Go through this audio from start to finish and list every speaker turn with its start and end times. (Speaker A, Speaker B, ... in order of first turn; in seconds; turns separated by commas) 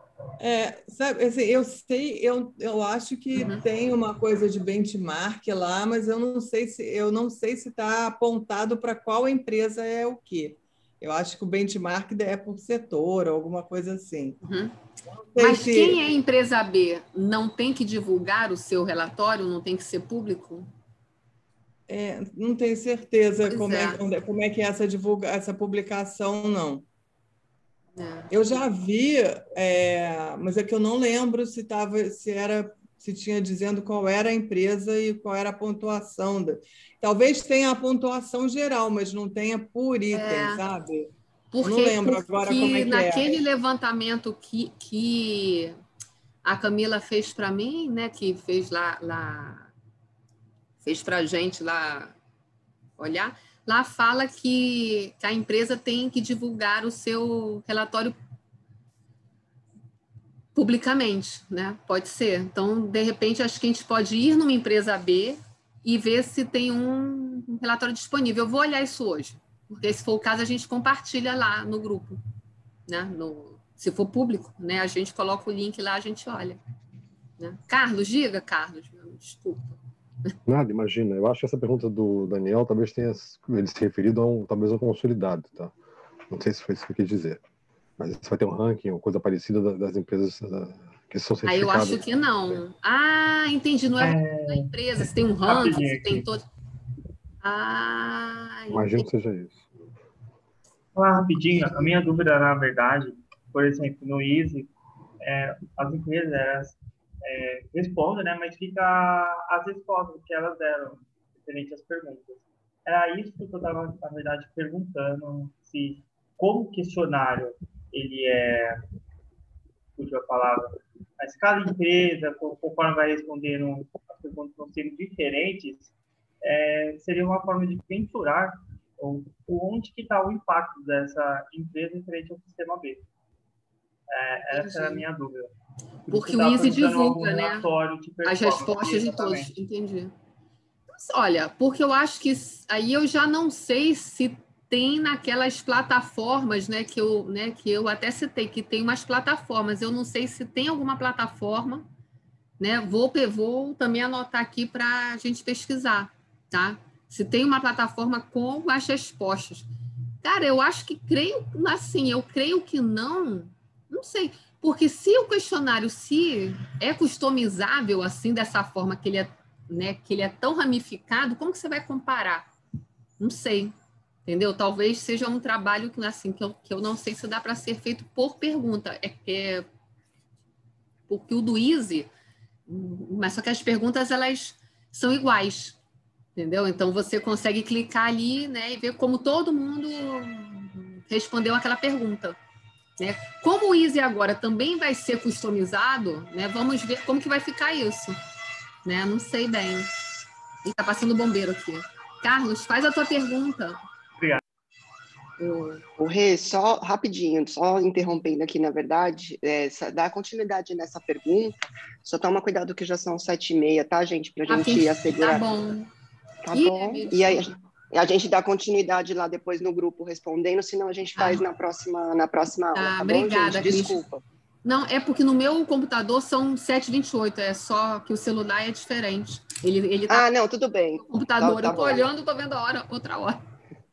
Speaker A: 0.4-14.4, Speaker B: 3.4-3.6, Speaker B: 14.4-14.8, Speaker A: 15.3-16.0, Speaker B: 15.4-20.7, Speaker A: 21.9-26.9, Speaker B: 23.5-24.0, Speaker B: 28.0-28.3, Speaker A: 28.3-43.4, Speaker B: 40.1-40.6, Speaker B: 41.5-45.7, Speaker B: 46.4-49.7, Speaker B: 50.8-52.1, Speaker B: 53.0-58.1, Speaker B: 60.5-72.2, Speaker B: 72.9-76.6, Speaker B: 77.4-79.8, Speaker C: 80.5-85.7, Speaker C: 86.3-87.4, Speaker C: 88.0-92.0, Speaker B: 91.5-96.5, Speaker D: 94.0-96.3, Speaker B: 97.4-99.1, Speaker C: 98.7-99.6, Speaker D: 101.0-118.8, Speaker D: 120.0-133.1, Speaker D: 134.1-135.5, Speaker B: 134.5-135.1, Speaker D: 136.1-139.6, Speaker B: 136.1-137.7, Speaker B: 138.2-140.1, Speaker B: 140.9-151.9, Speaker B: 152.6-159.7, Speaker B: 160.2-172.5, Speaker B: 173.2-173.7, Speaker B: 174.3-179.7, Speaker B: 181.1-182.1, Speaker B: 182.7-185.8, Speaker B: 186.4-192.4, Speaker B: 193.0-198.2, Speaker B: 198.8-199.9, Speaker B: 200.6-203.8, Speaker B: 205.4-205.8, Speaker E: 206.0-215.5, Speaker B: 214.5-215.9, Speaker E: 216.4-224.2, Speaker B: 216.5-217.6, Speaker B: 221.2-221.4, Speaker B: 222.7-224.0, Speaker B: 224.7-230.3, Speaker E: 230.1-232.1, Speaker B: 231.0-233.4